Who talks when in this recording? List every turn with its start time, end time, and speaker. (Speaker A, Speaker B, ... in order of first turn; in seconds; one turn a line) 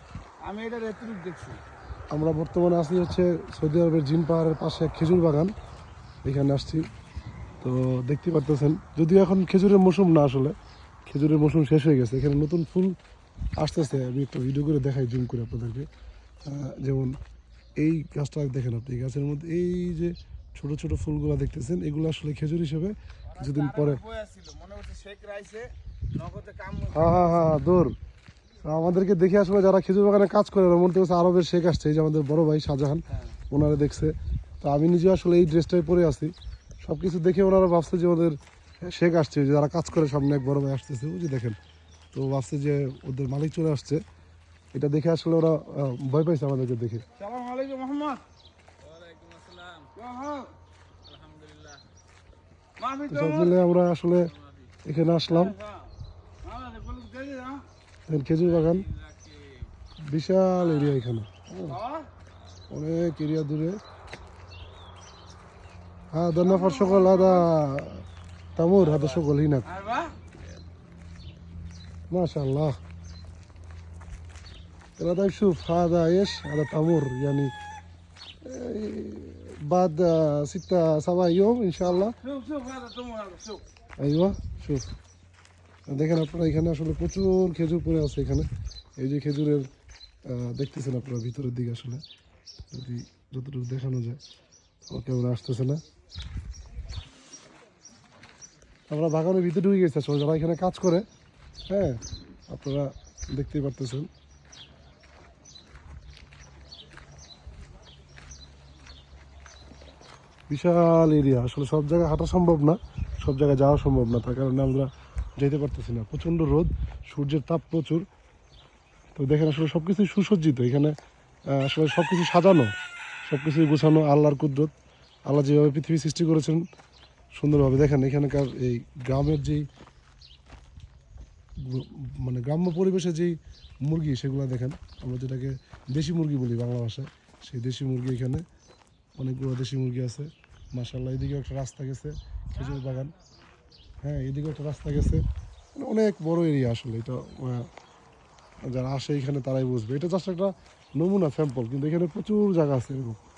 Speaker A: 0.4-1.6
Speaker B: 2.1-5.5
Speaker B: 6.2-6.9
Speaker B: 7.6-10.6
Speaker B: 11.1-12.9
Speaker B: 13.6-15.9
Speaker B: 16.4-17.2
Speaker B: 17.8-24.0
Speaker A: 23.3-27.6
Speaker B: 26.9-27.9
Speaker B: 28.6-41.6
Speaker B: 42.1-44.0
Speaker B: 44.7-47.1
Speaker A: 47.2-48.2
Speaker C: 48.8-49.9
Speaker A: 49.9-50.5
Speaker C: 51.1-51.9
Speaker A: 52.8-53.6
Speaker B: 53.1-54.3
Speaker C: 54.4-54.7
Speaker B: 54.9-55.6
Speaker A: 55.3-55.9
Speaker A: 56.4-57.7
Speaker B: 58.1-58.9
Speaker C: 58.9-59.7
Speaker B: 60.0-61.8
Speaker A: 60.6-61.0
Speaker A: 61.7-62.1
Speaker B: 62.7-63.8
Speaker B: 66.1-69.7
Speaker A: 66.4-67.5
Speaker A: 68.8-70.3
Speaker B: 72.1-72.8
Speaker B: 75.0-77.5
Speaker B: 78.4-82.2
Speaker A: 81.9-83.6
Speaker B: 84.0-84.9
Speaker B: 85.9-89.7
Speaker B: 90.3-92.0
Speaker B: 92.7-94.2
Speaker B: 94.9-95.8
Speaker B: 98.9-101.0
Speaker B: 101.7-104.1
Speaker B: 110.5-118.0
Speaker B: 119.2-121.0
Speaker B: 121.5-122.7
Speaker B: 123.3-124.7
Speaker B: 125.3-126.6
Speaker B: 127.4-129.7
Speaker B: 131.6-138.4
Speaker B: 139.2-143.1
Speaker B: 144.0-147.7
Speaker B: 148.6-153.2